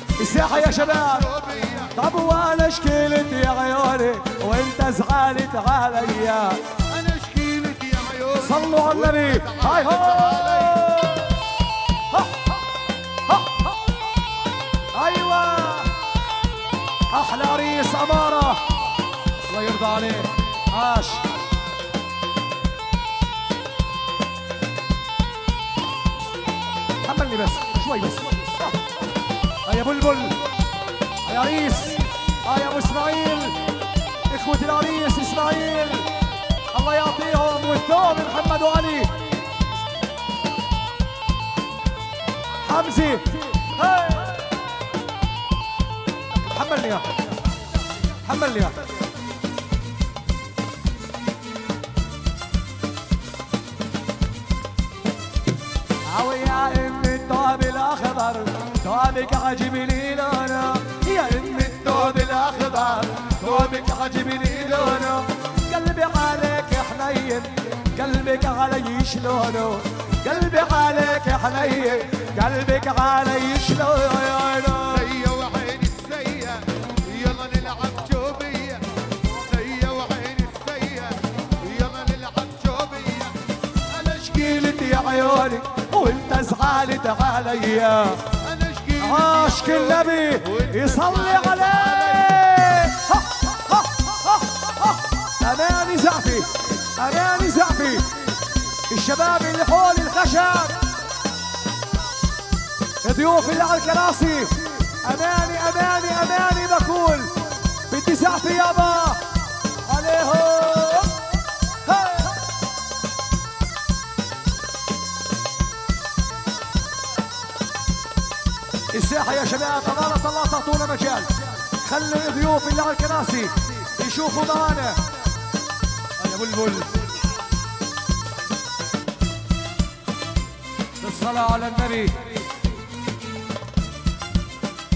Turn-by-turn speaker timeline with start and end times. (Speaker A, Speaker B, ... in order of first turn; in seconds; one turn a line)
Speaker A: 0.2-1.3
Speaker B: 0.7-1.9
Speaker A: 1.8-6.7
Speaker B: 6.9-10.8
Speaker A: 8.3-11.4
Speaker A: 12.1-12.4
Speaker A: 13.3-13.6
Speaker A: 14.9-16.1
Speaker A: 17.1-18.7
Speaker A: 19.4-21.4
Speaker A: 27.0-28.8
Speaker A: 29.6-30.4
Speaker A: 31.2-33.7
Speaker A: 34.2-36.1
Speaker A: 36.7-39.2
Speaker A: 42.6-44.5
Speaker A: 46.4-47.1
Speaker A: 48.2-48.9
Speaker A: 56.0-75.1
Speaker B: 74.9-83.5
Speaker A: 83.9-88.3
Speaker B: 88.4-92.2
Speaker A: 89.0-98.2
Speaker A: 98.9-100.9
Speaker A: 103.0-111.2
Speaker A: 111.8-112.4
Speaker A: 118.9-125.0
Speaker A: 126.2-127.0
Speaker A: 131.0-132.4